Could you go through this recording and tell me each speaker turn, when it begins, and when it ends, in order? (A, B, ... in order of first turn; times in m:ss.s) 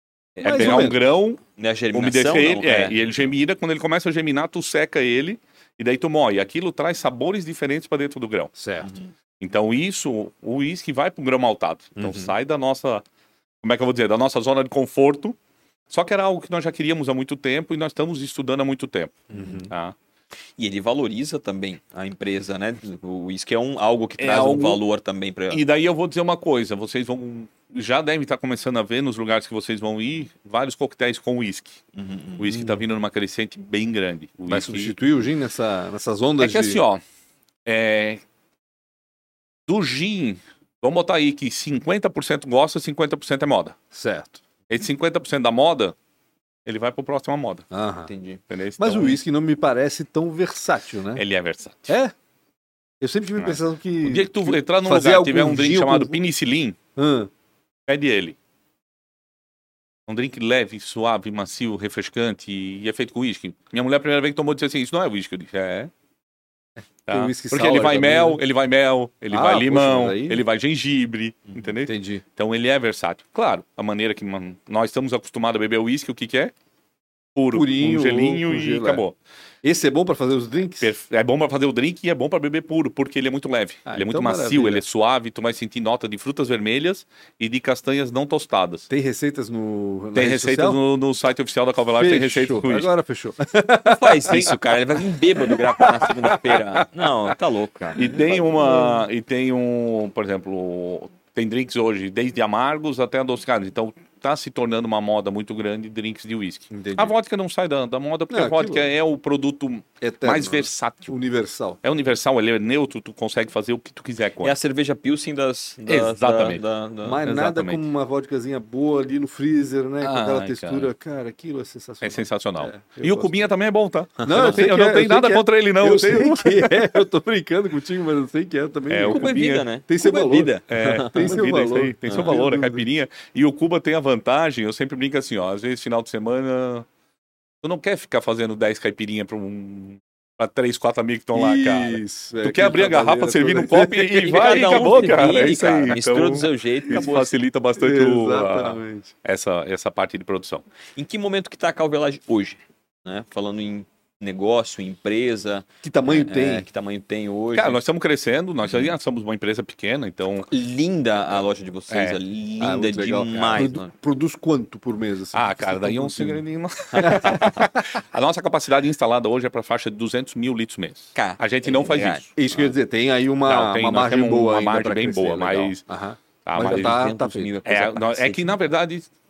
0:00.4-0:01.0 A
0:00.4-0:01.4 B
0:00.6-0:00.9 C
0:01.6-0:03.1 C
0:01.9-0:08.5 B
0:08.6-0:08.9 A
0:09.4-0:13.0 B
0:12.0-0:12.3 A
0:13.6-0:15.4 B
0:15.9-0:20.0 B
0:19.3-0:19.7 A
0:20.6-0:25.6 C
0:24.2-0:24.8 B
0:25.5-0:31.8 B
0:32.0-0:32.7 C
0:32.4-0:35.0 B
0:34.5-0:36.8 A
0:36.4-0:37.0 B
0:37.7-0:38.2 B
0:39.7-0:43.8 B
0:43.9-0:44.4 A
0:44.7-0:46.0 B
0:46.7-0:47.7 B
0:47.7-0:48.1 A
0:48.1-0:48.4 C
0:48.5-0:49.2 B
0:48.8-0:51.2 A
0:51.2-0:52.0 B
0:51.9-0:52.1 A
0:53.0-0:56.2 A
0:53.4-0:56.8 B
0:57.0-0:57.3 A
0:57.9-0:58.4 B
1:00.1-1:05.9 B
1:07.1-1:16.5 B
1:07.1-1:08.4 A
1:09.3-1:10.4 A
1:11.8-1:12.2 A
1:17.4-1:19.2 B
1:17.5-1:19.0 A
1:19.6-1:20.9 A
1:20.8-1:28.9 B
1:23.9-1:24.8 A
1:28.9-1:30.8 A
1:30.2-1:32.9 B
1:31.9-1:34.5 A
1:33.8-1:38.2 C
1:34.3-1:34.6 B
1:35.4-1:36.9 A
1:38.0-1:51.1 B
1:38.0-1:39.0 A
1:46.7-1:47.1 A
1:48.3-1:48.9 A
1:50.0-1:51.8 A
1:51.8-1:54.6 B
1:54.4-1:57.2 C
1:55.9-1:56.6 B
1:57.0-2:03.5 A
1:57.2-1:57.8 B
2:00.0-2:00.9 B
2:02.0-2:07.0 B
2:04.2-2:04.6 C
2:04.2-2:12.9 A
2:08.9-2:09.7 B
2:09.1-2:11.4 C
2:10.7-2:16.9 B
2:12.1-2:12.3 C
2:17.6-2:30.6 B
2:21.3-2:25.2 A
2:24.2-2:27.3 C
2:27.8-2:29.1 A
2:31.0-2:37.8 C
2:35.8-2:36.7 A
2:37.6-2:40.5 B
2:38.7-2:38.9 C
2:40.5-2:43.9 C
2:41.9-2:42.2 B
2:42.6-2:46.4 A
2:45.3-2:52.3 B
2:46.9-2:47.6 C
2:47.0-2:47.7 A
2:51.2-2:52.3 C
2:52.4-2:57.5 A
2:53.4-2:55.8 B
2:56.4-2:57.1 B
2:56.6-2:58.6 C
2:57.7-2:59.1 B